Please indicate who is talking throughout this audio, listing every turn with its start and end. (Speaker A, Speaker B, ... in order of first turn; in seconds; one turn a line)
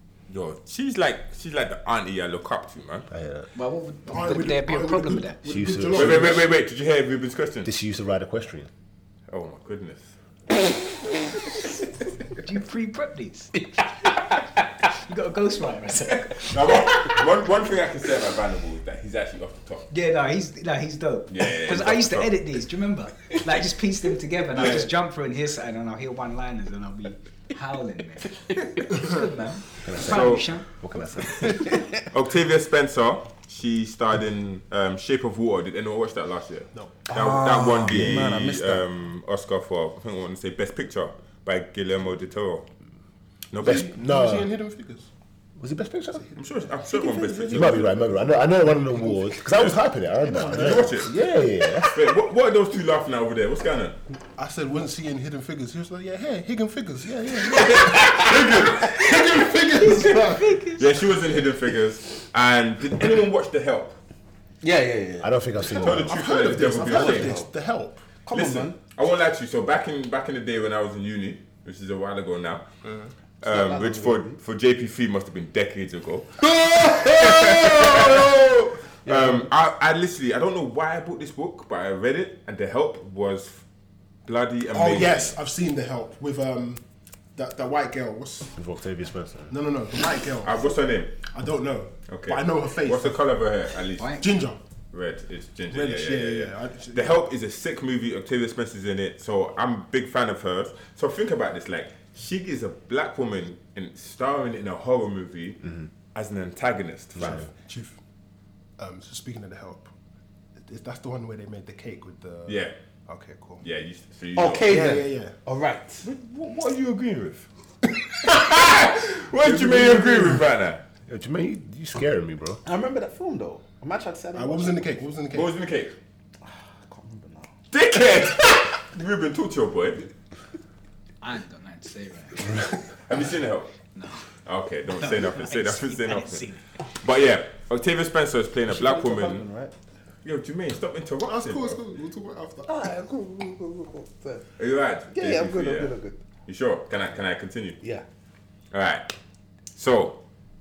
Speaker A: 0.3-3.1
Speaker B: 3.1-3.5
Speaker C: 3.5-5.4
Speaker D: 4.1-6.5
Speaker B: 5.5-6.4
Speaker A: 5.9-7.7
Speaker B: 7.6-8.7
Speaker A: 9.3-10.1
Speaker C: 12.4-14.1
Speaker C: 14.9-16.8
Speaker A: 16.4-19.9
Speaker C: 19.9-30.6
Speaker A: 21.3-22.4
Speaker A: 24.6-24.9
Speaker B: 29.8-31.6
Speaker A: 30.0-30.4
Speaker A: 32.1-42.7
Speaker E: 37.1-38.8
Speaker A: 43.5-43.8
Speaker B: 43.6-44.5
Speaker D: 43.6-45.1
Speaker B: 45.6-46.3
Speaker A: 46.4-48.1
Speaker E: 46.9-48.1
Speaker B: 47.5-52.0
Speaker E: 50.2-51.0
Speaker A: 50.5-51.1
Speaker A: 51.9-54.0
Speaker D: 54.4-60.6
Speaker A: 57.5-60.1
Speaker C: 59.7-60.9
Speaker A: 60.8-64.0
Speaker E: 64.6-65.3
Speaker B: 65.2-66.2
Speaker A: 65.7-67.3
Speaker D: 65.8-68.0
Speaker E: 66.8-67.5
Speaker E: 68.2-68.8
Speaker A: 68.3-72.6
Speaker D: 72.8-73.1
Speaker A: 73.4-83.6
Speaker E: 73.4-74.4
Speaker E: 76.9-78.3
Speaker E: 79.0-79.5
Speaker A: 84.2-85.3
Speaker D: 84.7-86.8
Speaker D: 87.4-88.5
Speaker B: 88.5-89.5
Speaker D: 89.5-90.7
Speaker A: 90.4-91.1
Speaker D: 91.2-93.2
Speaker A: 92.1-94.2
Speaker C: 94.0-94.3
Speaker D: 94.2-94.6
Speaker A: 94.9-105.6
Speaker D: 95.7-97.2
Speaker A: 106.1-107.5
Speaker D: 107.2-108.0
Speaker D: 108.8-109.9
Speaker D: 110.6-113.6
Speaker A: 112.5-112.7
Speaker A: 113.6-114.7
Speaker E: 114.4-116.0
Speaker D: 114.7-115.4
Speaker A: 116.0-117.5
Speaker A: 118.2-120.8
Speaker D: 119.4-120.4
Speaker B: 121.1-122.6
Speaker E: 122.6-124.9
Speaker D: 124.3-125.6
Speaker A: 125.3-125.9
Speaker E: 126.4-127.5
Speaker A: 127.7-130.1
Speaker C: 131.2-132.6
Speaker A: 133.1-133.7
Speaker C: 133.9-134.2
Speaker A: 134.4-136.4
Speaker C: 135.0-136.6
Speaker A: 137.0-139.4
Speaker E: 138.7-139.7
Speaker A: 140.2-141.8
Speaker D: 141.2-142.9
Speaker E: 142.6-144.4
Speaker A: 144.6-145.9
Speaker E: 145.1-146.2
Speaker A: 146.4-147.8
Speaker A: 148.7-149.1
Speaker A: 149.8-150.2